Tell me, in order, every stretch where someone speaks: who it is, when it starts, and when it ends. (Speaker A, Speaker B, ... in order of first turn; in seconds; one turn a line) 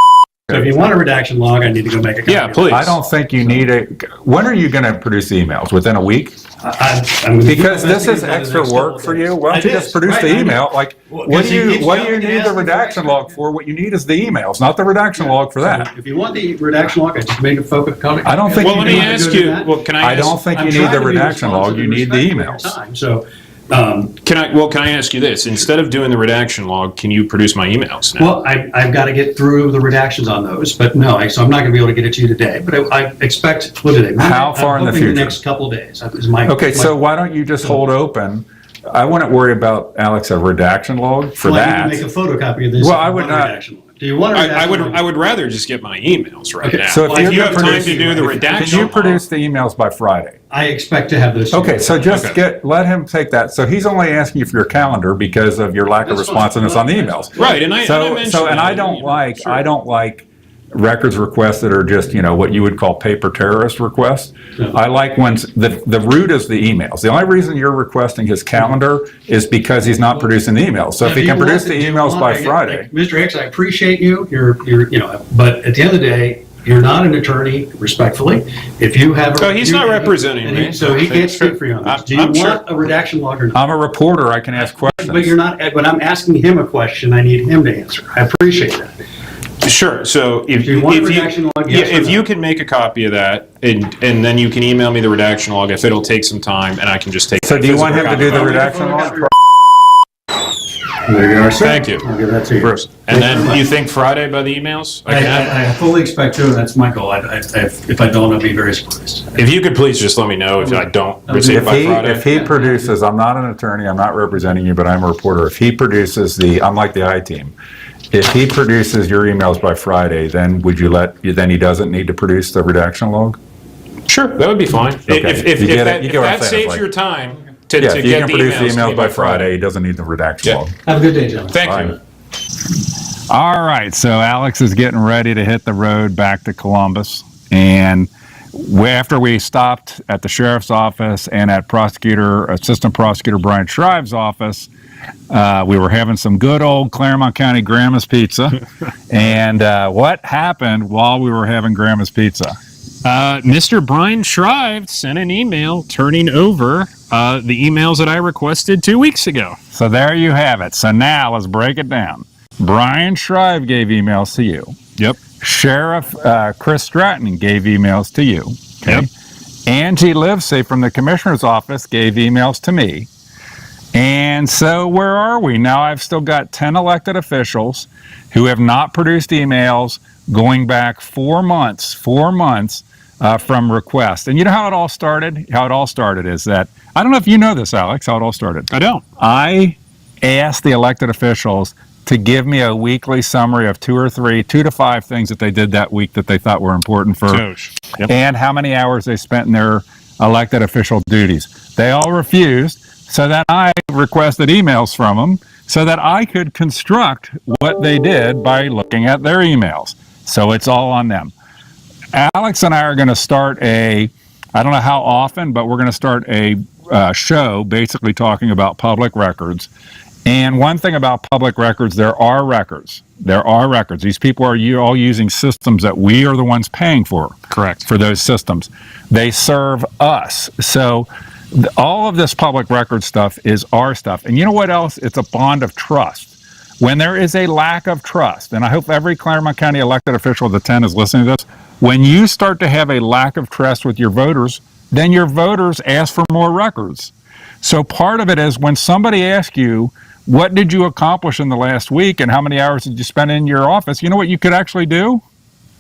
Speaker A: 0.5-3.7
Speaker B: 2.3-3.0
Speaker C: 2.7-6.4
Speaker A: 6.6-13.3
Speaker C: 7.5-15.9
Speaker A: 15.2-19.7
Speaker C: 18.2-19.2
Speaker B: 18.6-20.4
Speaker C: 20.0-22.8
Speaker A: 20.5-24.2
Speaker B: 24.2-28.3
Speaker A: 28.2-37.0
Speaker C: 34.2-35.4
Speaker C: 36.5-42.0
Speaker A: 41.4-45.0
Speaker C: 42.8-43.5
Speaker B: 44.3-49.2
Speaker A: 46.6-49.0
Speaker C: 46.9-50.4
Speaker A: 50.5-52.3
Speaker C: 51.5-72.9
Speaker B: 52.1-52.4
Speaker A: 56.0-57.7
Speaker B: 57.4-59.7
Speaker A: 71.0-83.6
Speaker B: 79.4-82.6
Speaker C: 83.5-85.3
Speaker A: 84.8-89.0
Speaker B: 89.6-98.7
Speaker A: 90.6-92.2
Speaker C: 97.4-99.3
Speaker A: 98.1-99.3
Speaker A: 101.1-103.6
Speaker B: 101.6-102.0
Speaker B: 102.6-105.5
Speaker A: 105.1-109.4
Speaker B: 109.3-112.3
Speaker A: 110.6-112.9
Speaker C: 111.5-117.5
Speaker C: 118.1-123.4
Speaker B: 124.1-129.5
Speaker C: 125.1-126.8
Speaker C: 127.8-130.8
Speaker A: 130.8-131.6
Speaker B: 131.5-132.0
Speaker C: 131.7-131.9
Speaker C: 133.3-144.7
Speaker C: 145.3-152.6
Speaker B: 153.0-159.6
Speaker C: 159.7-164.8
Speaker C: 165.4-169.1
Speaker C: 169.7-173.1
Speaker C: 173.9-197.4
Speaker B: 188.7-189.0
Speaker B: 197.3-198.1
Speaker C: 198.1-211.3
Speaker C: 212.1-219.7
Speaker C: 220.2-255.2
Speaker B: 227.5-227.9